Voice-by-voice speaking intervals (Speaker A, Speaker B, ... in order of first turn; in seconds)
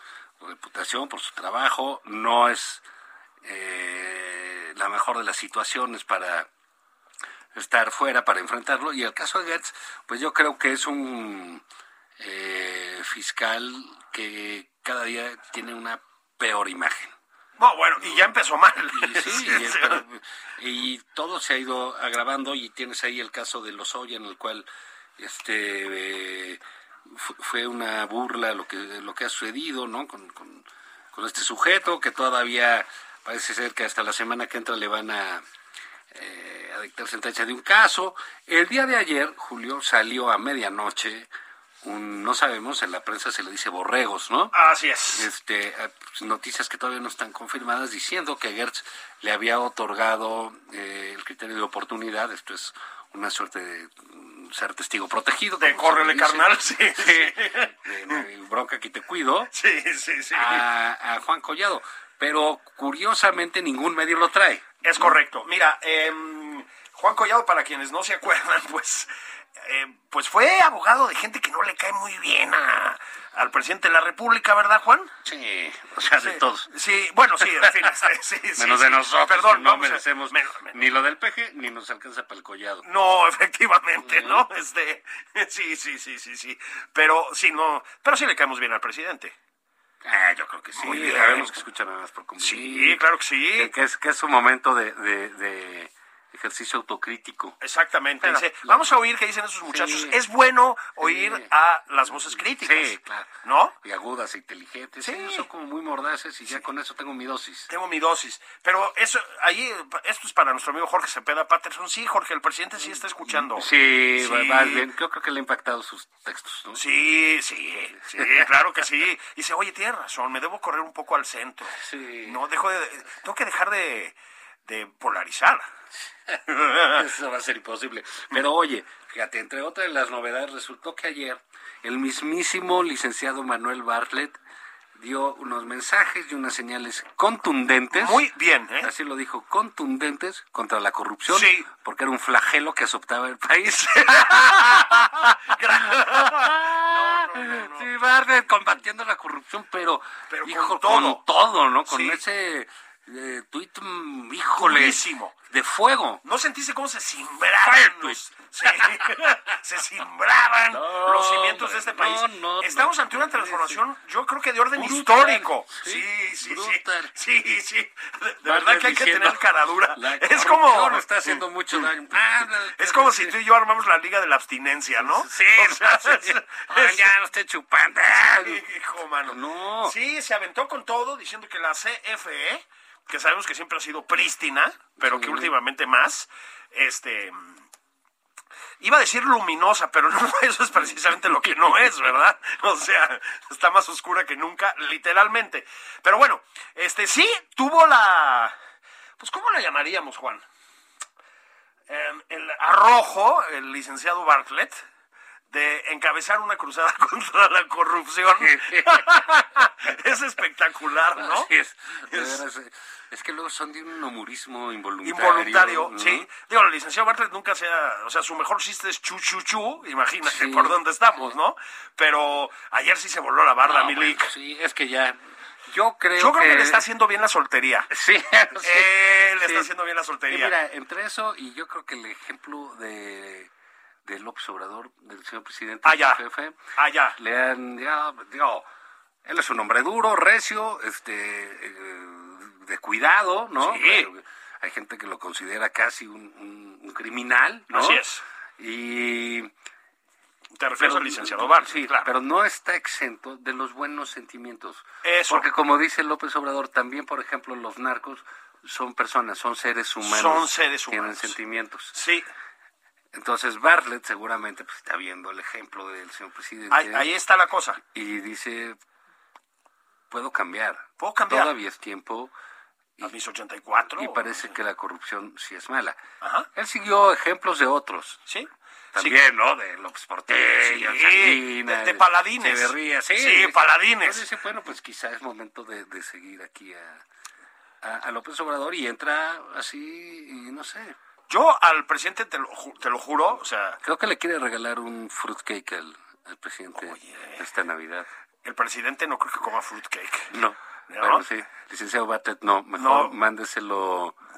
Speaker A: 0.4-2.8, 3.4-6.5, 7.5-11.6, 12.2-17.1, 18.9-24.7, 25.2-35.4, 36.1-41.3, 41.8-44.5, 45.1-59.5, 60.3-65.1, 75.2-76.7, 77.4-77.9, 78.6-82.8, 84.0-84.5, 90.0-97.6, 98.2-99.0, 99.7-100.2, 101.0-101.5, 102.4-103.3, 103.8-107.7, 113.3-116.8, 121.7-122.4, 126.3-134.4, 134.9-138.3, 138.8-156.2, 157.6-159.1, 160.7-163.8, 164.7-167.1, 168.4-173.3, 175.0-178.6, 179.3-179.9, 185.0-185.5, 191.5-191.9, 208.4-209.3, 211.1-216.3, 220.2-220.8, 223.6-225.2, 225.7-226.8, 227.9-229.7, 230.3-233.5, 234.0-236.6, 237.2-238.6, 239.2-248.0, 248.6-249.5, 250.8-261.9, 263.1-267.1, 267.9-268.8, 270.1-272.3, 273.9-276.0, 276.5-278.2, 278.9-287.0, 287.8-290.9, 293.8-298.1, 300.3-304.2
Speaker B: 17.6-20.0, 44.5-45.3, 55.6-58.2, 59.5-60.6, 64.8-75.1, 76.2-80.8, 82.8-89.3, 90.8-91.6, 92.4-93.7, 97.6-103.8, 105.0-105.5, 107.7-114.9, 116.7-125.7, 126.5-127.0, 137.9-138.9, 141.3-141.7, 143.7-147.9, 150.3-151.2, 151.9-152.2, 154.6-155.3, 156.2-171.8, 172.6-177.1, 178.1-187.6, 188.8-198.6, 199.2-200.4, 201.9-204.8, 205.5-211.5, 212.1-212.4, 215.0-224.3, 226.2-227.9, 228.6-230.5, 235.8-236.2, 236.8-237.2, 243.6-244.1, 247.7-248.2, 250.6-252.1, 255.0-255.5, 260.0-261.4, 261.9-262.3, 266.7-267.8, 271.0-271.5, 273.0-274.5, 276.2-276.5, 278.3-279.2, 280.6-284.2, 291.3-293.8, 296.8-297.4, 298.4-300.3, 300.9-301.2, 302.8-303.1